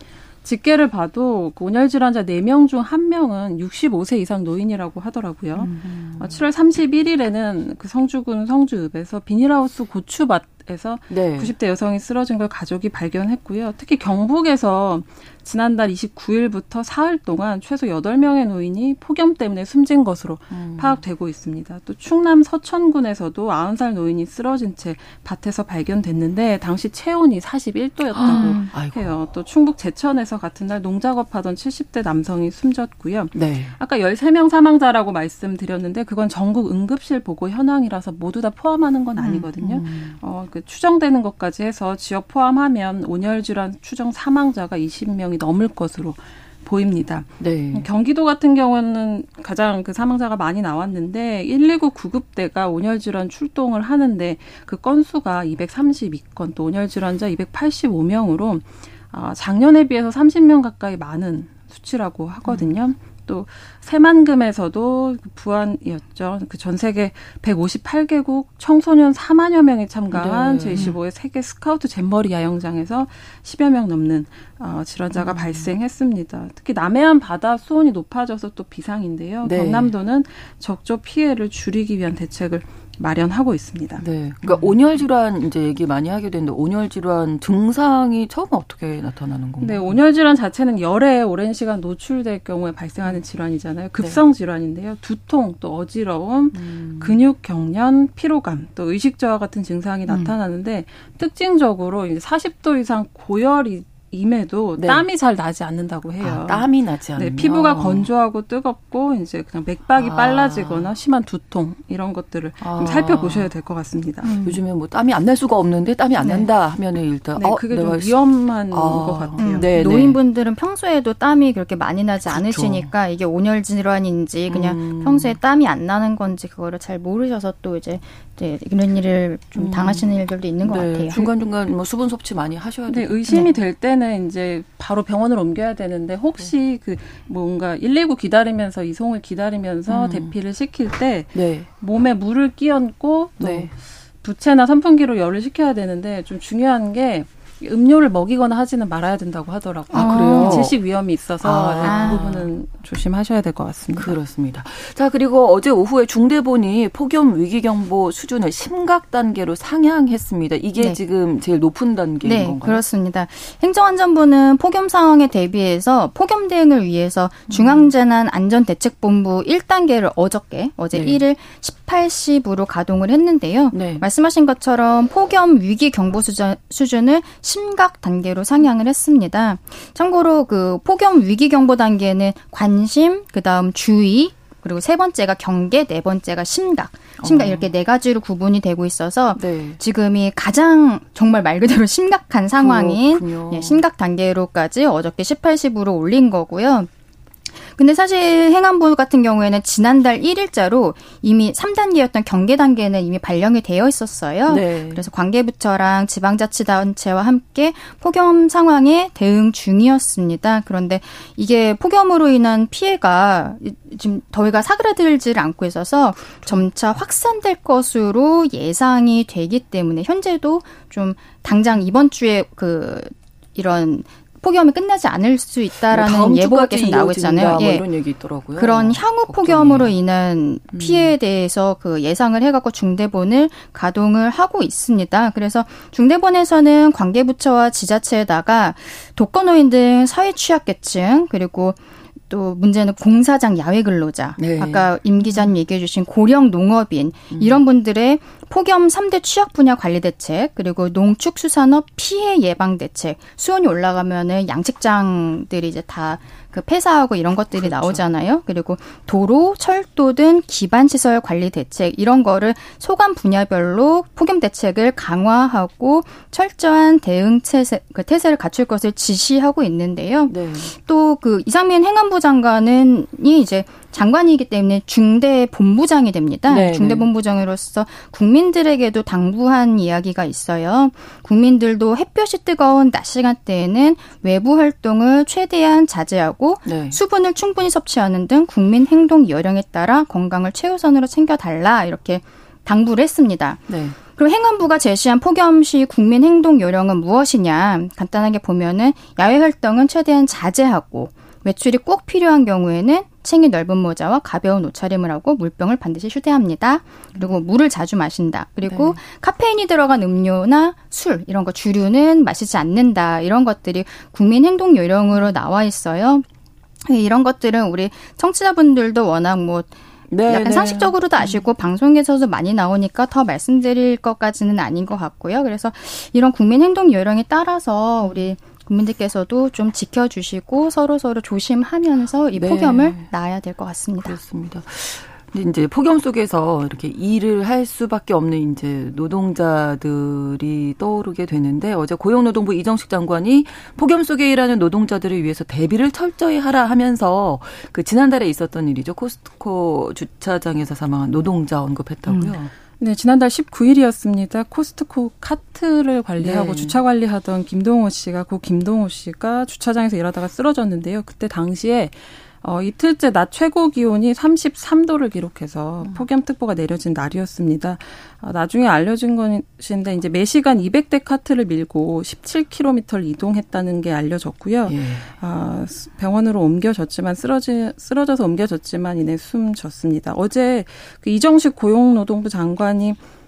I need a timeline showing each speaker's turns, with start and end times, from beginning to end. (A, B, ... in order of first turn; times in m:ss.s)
0:00.4-1:24.6 A
0:05.6-0:06.4 B
0:11.1-0:11.5 B
0:20.5-0:21.0 B
0:28.1-0:29.1 B
0:28.2-0:28.7 C
0:33.3-0:33.7 B
0:39.2-0:40.2 B
0:47.4-0:47.9 B
1:10.1-1:11.0 B
1:15.1-1:15.7 B
1:19.4-1:19.9 B
1:24.0-1:30.0 B
1:29.6-1:54.3 A
1:36.5-1:37.2 B
1:44.8-1:45.0 B
1:46.2-1:48.1 B
1:50.0-1:50.9 B
1:52.6-1:53.5 B
1:54.2-1:54.6 C
1:54.4-1:58.2 B
1:57.4-1:59.8 A
1:58.7-2:00.2 B
1:59.4-2:11.2 C
2:02.3-2:02.9 B
2:04.5-2:05.4 B
2:09.5-2:10.1 B
2:10.6-2:13.5 B
2:12.9-2:34.1 A
2:19.9-2:20.3 B
2:21.3-2:21.7 B
2:23.4-2:23.7 B
2:29.9-2:30.7 B
2:29.9-2:30.6 C
2:31.4-2:32.5 B
2:31.8-2:32.2 C
2:33.9-2:42.8 B
2:42.2-3:16.9 C
2:47.5-2:47.9 B
2:50.9-2:51.2 B
2:53.7-2:54.0 B
3:07.2-3:07.6 B
3:09.3-3:09.8 B
3:12.6-3:13.8 B
3:17.7-3:47.8 C
3:24.5-3:25.1 B
3:45.9-3:49.9 B
3:48.6-4:01.8 C
3:50.7-3:51.1 B
4:02.3-5:16.2 C
4:04.4-4:05.4 B
4:07.3-4:07.6 B
4:17.5-4:18.1 B
4:30.3-4:30.7 B
4:36.5-4:37.1 B
4:46.6-4:47.0 B
4:53.7-4:54.0 B
5:08.6-5:09.0 B
5:16.8-5:19.7 C
5:20.1-5:21.4 B
5:20.2-5:34.2 C
5:32.3-5:33.1 B
5:34.0-5:52.5 B
5:52.1-5:52.4 C
5:52.8-6:23.0 A
5:56.2-5:56.8 B
6:14.6-6:15.1 B